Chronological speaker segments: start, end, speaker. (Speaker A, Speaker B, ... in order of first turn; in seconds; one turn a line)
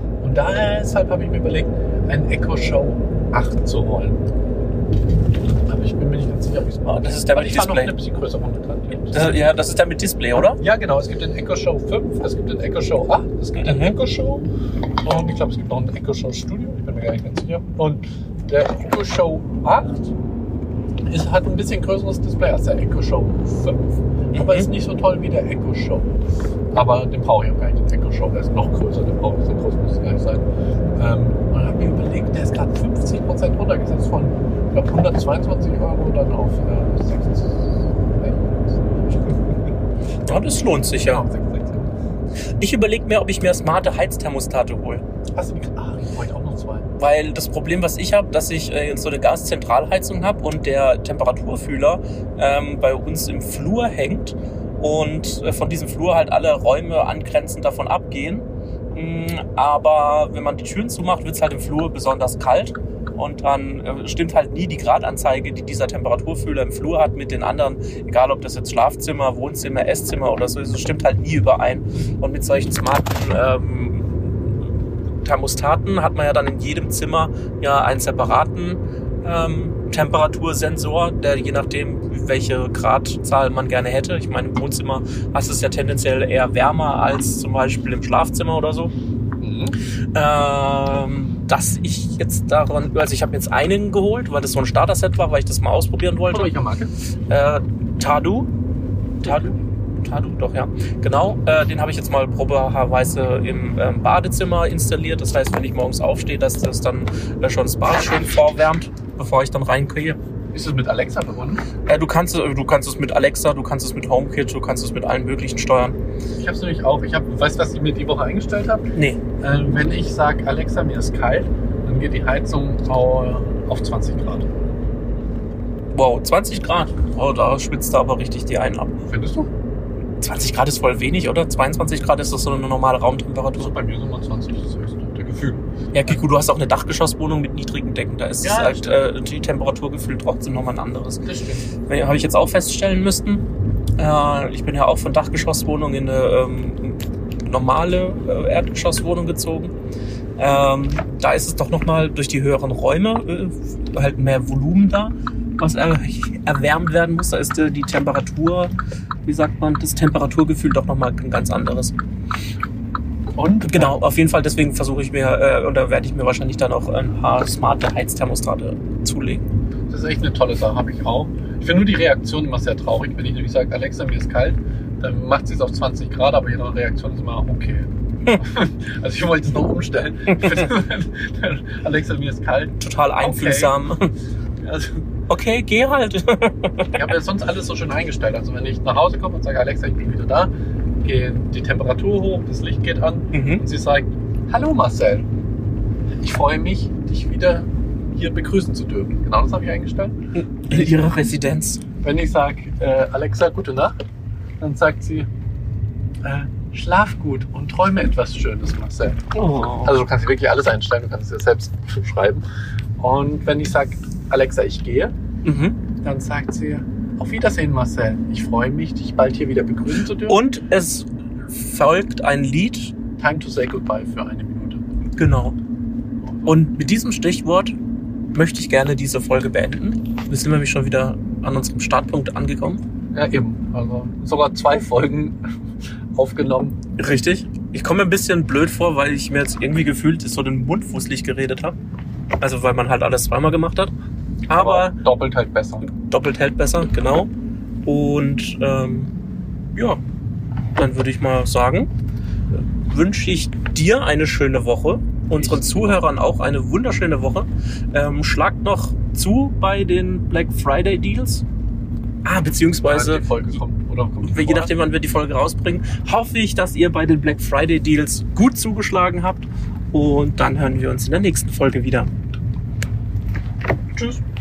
Speaker A: 0.2-4.2
Speaker A: 5.7-9.4
Speaker B: 6.9-7.9
Speaker B: 9.1-10.6
Speaker A: 10.6-14.5
Speaker B: 13.6-13.9
Speaker A: 15.0-20.1
Speaker A: 21.1-26.1
Speaker B: 24.3-24.7
Speaker A: 26.7-38.8
Speaker B: 40.2-41.2
Speaker A: 41.0-41.9
Speaker B: 42.6-45.0
Speaker A: 45.3-46.9
Speaker B: 47.0-74.7
Speaker B: 75.2-88.9
Speaker A: 89.4-89.8
Speaker B: 90.1-96.5
Speaker A: 96.3-96.9
Speaker B: 97.3-98.5
Speaker B: 99.2-110.2
Speaker A: 99.2-99.5
Speaker A: 110.5-111.6
Speaker B: 111.8-116.0
Speaker A: 116.4-124.5
Speaker B: 125.9-128.9
Speaker A: 129.1-129.5
Speaker B: 130.2-133.7
Speaker A: 133.6-136.2
Speaker B: 135.9-141.2
Speaker A: 138.4-139.0
Speaker A: 141.2-141.7
Speaker B: 141.9-143.4
Speaker B: 144.0-149.7
Speaker B: 150.4-158.7
Speaker B: 159.2-161.9
Speaker A: 163.3-163.9
Speaker B: 163.6-169.4
Speaker A: 169.9-183.8
Speaker B: 182.8-184.1
Speaker A: 184.6-185.0
Speaker B: 185.3-187.1
Speaker A: 186.9-190.5
Speaker A: 191.0-195.2
Speaker B: 193.3-193.6
Speaker A: 196.2-200.2
Speaker B: 200.3-201.8
Speaker A: 202.0-204.0
Speaker A: 204.6-205.3
Speaker A: 206.2-209.3
Speaker B: 209.3-209.9
Speaker A: 209.8-212.4
Speaker A: 213.0-215.1
Speaker B: 215.4-215.8
Speaker A: 216.0-220.4
Speaker B: 220.3-222.9
Speaker A: 223.2-224.8
Speaker B: 225.2-225.6
Speaker A: 226.2-226.5
Speaker B: 226.4-227.7
Speaker B: 228.3-232.8
Speaker A: 233.1-235.4
Speaker A: 236.1-236.8
Speaker B: 237.0-241.8
Speaker B: 242.4-243.9
Speaker B: 244.5-245.0
Speaker A: 244.5-245.9
Speaker B: 245.9-247.3
Speaker B: 247.8-249.1
Speaker B: 249.7-250.0
Speaker B: 250.8-251.9
Speaker B: 252.5-261.4
Speaker A: 255.3-256.0
Speaker B: 262.2-263.2
Speaker A: 262.8-264.7
Speaker B: 264.2-272.1